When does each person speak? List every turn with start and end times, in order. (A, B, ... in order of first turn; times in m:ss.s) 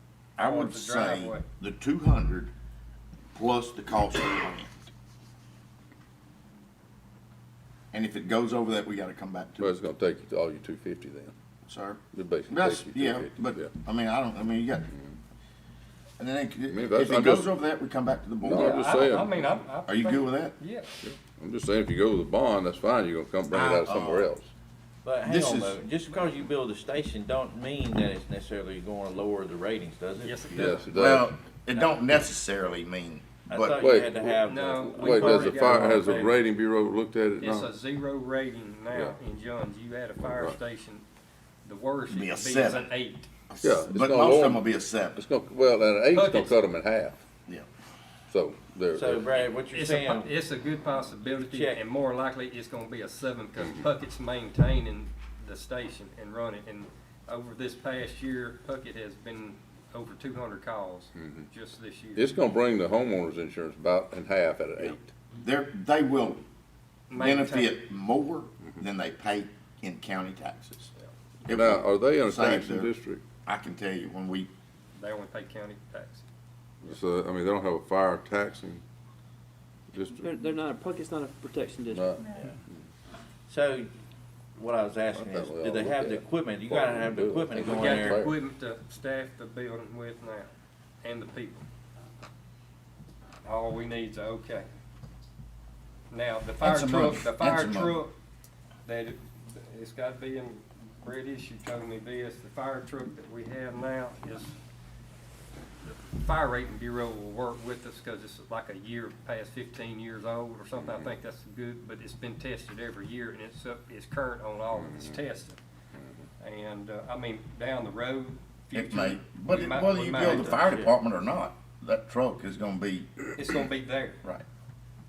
0:00.4-0:02.5 A
0:00.4-0:01.4 B
0:03.3-0:04.7 A
0:07.9-0:09.8 A
0:09.6-0:11.3 C
0:11.7-0:14.9 A
0:12.1-0:13.7 C
0:14.9-0:15.2 C
0:16.2-0:18.8 A
0:16.7-0:17.5 C
0:18.4-0:19.5 C
0:18.5-0:20.9 B
0:19.9-0:20.6 A
0:21.0-0:24.5 C
0:23.5-0:24.3 A
0:25.0-0:30.4 D
0:25.2-0:25.8 A
0:30.2-0:30.9 B
0:30.6-0:31.3 C
0:30.8-0:33.8 A
0:33.5-0:36.1 D
0:33.8-0:34.4 C
0:34.5-0:36.4 B
0:35.0-0:37.7 C
0:37.4-0:41.0 B
0:40.2-0:40.6 C
0:41.6-0:43.3 B
0:42.1-0:42.9 A
0:43.5-0:45.2 A
0:43.6-0:47.2 C
0:46.1-0:46.6 B
0:48.3-0:49.3 C
0:48.9-0:50.3 D
0:49.7-1:02.4 B
0:51.4-0:51.8 D
1:01.2-1:01.5 C
1:02.2-1:05.1 C
1:05.4-1:06.4 A
1:07.1-1:07.8 B
1:07.2-1:10.9 A
1:11.5-1:12.9 A
1:11.5-1:13.2 C
1:13.4-1:14.5 A
1:14.9-1:16.3 B
1:16.8-1:18.8 C
1:19.9-1:20.4 C
1:20.2-1:22.4 E
1:21.9-1:22.3 C
1:23.5-1:23.9 D
1:24.6-1:28.2 D
1:25.1-1:28.4 C
1:27.6-1:30.5 B
1:31.0-1:31.6 B
1:33.4-1:34.7 B
1:36.1-1:38.1 B
1:36.6-1:38.0 A
1:38.8-1:44.6 B
1:45.8-1:55.6 B
1:50.8-1:51.1 C
1:54.8-1:55.2 C
1:56.4-2:00.6 B
1:58.7-2:03.6 A
2:00.2-2:01.0 D
2:03.4-2:04.2 B